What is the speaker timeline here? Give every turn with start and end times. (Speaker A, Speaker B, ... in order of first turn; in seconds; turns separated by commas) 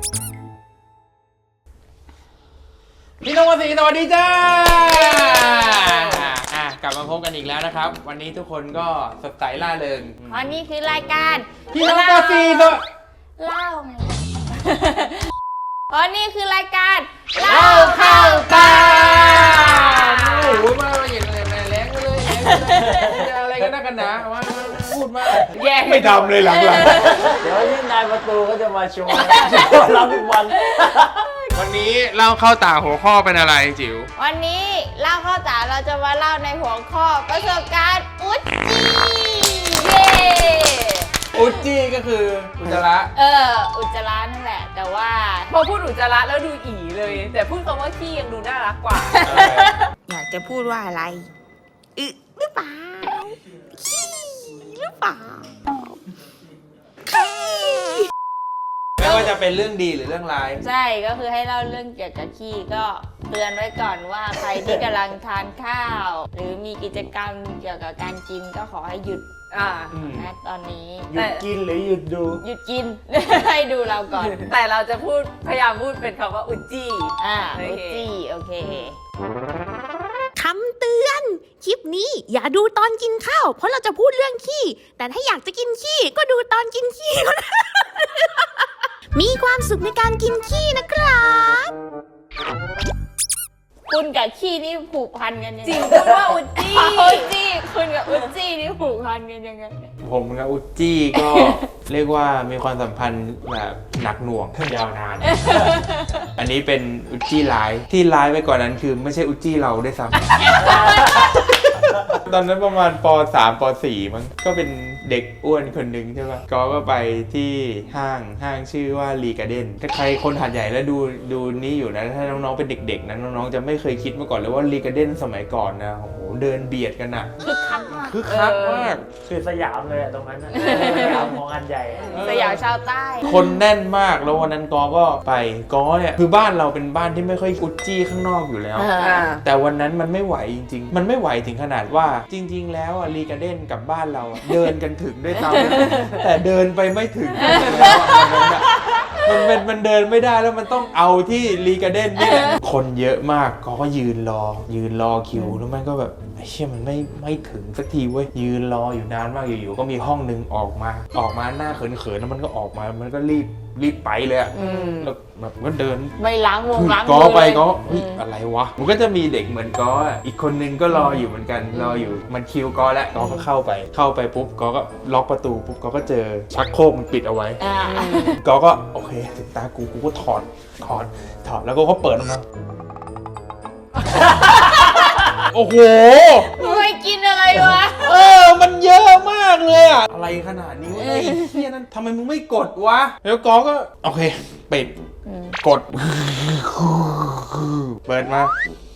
Speaker A: 3.2-10.5, Speaker B: 5.5-6.0, Speaker B: 10.3-12.8, Speaker A: 11.7-12.8, Speaker B: 13.4-15.3, Speaker B: 15.9-20.0, Speaker A: 17.4-27.4, Speaker C: 18.6-20.6, Speaker B: 22.4-23.2, Speaker D: 22.8-23.6, Speaker C: 25.5-27.3, Speaker B: 26.4-27.3, Speaker D: 27.2-31.3, Speaker B: 29.4-29.7, Speaker B: 30.6-31.5, Speaker A: 31.5-34.1, Speaker B: 34.2-41.5, Speaker C: 39.8-41.0, Speaker A: 41.3-43.1, Speaker B: 43.1-45.5, Speaker C: 45.5-49.6, Speaker A: 47.0-47.4, Speaker B: 49.2-51.3, Speaker A: 49.2-49.8, Speaker B: 52.0-53.4, Speaker E: 53.8-55.0, Speaker B: 54.5-55.4, Speaker E: 57.1-58.0, Speaker A: 59.0-60.6, Speaker B: 59.0-59.3, Speaker B: 60.6-69.3, Speaker C: 69.5-69.9, Speaker A: 69.9-70.3, Speaker B: 70.0-71.1, Speaker D: 71.1-72.4, Speaker C: 71.1-71.4, Speaker B: 72.4-74.5, Speaker C: 74.2-78.1, Speaker B: 77.2-79.0, Speaker E: 80.3-91.7, Speaker B: 93.9-99.9, Speaker C: 95.7-97.3, Speaker A: 100.0-105.7, Speaker B: 101.1-101.6, Speaker B: 105.2-106.3, Speaker A: 106.4-127.3, Speaker B: 110.5-111.2, Speaker B: 127.4-128.2, Speaker A: 128.0-129.1, Speaker C: 128.3-128.9, Speaker D: 129.2-132.2, Speaker B: 130.6-131.3, Speaker C: 130.6-131.2, Speaker C: 132.0-132.5, Speaker A: 132.1-132.7, Speaker B: 132.2-133.6, Speaker A: 133.2-166.2, Speaker B: 138.8-139.3, Speaker C: 139.0-139.4, Speaker B: 145.5-146.1, Speaker B: 147.4-149.4, Speaker B: 152.2-152.6, Speaker C: 164.5-165.1, Speaker B: 164.6-165.0, Speaker B: 166.2-168.2, Speaker A: 166.7-177.6, Speaker B: 173.2-173.4, Speaker B: 177.6-178.4, Speaker C: 177.9-178.4, Speaker A: 178.4-182.4, Speaker B: 184.4-185.1, Speaker A: 185.4-186.8, Speaker B: 186.4-188.4, Speaker A: 187.6-194.9, Speaker B: 190.9-191.6, Speaker B: 195.2-195.6, Speaker A: 195.6-198.5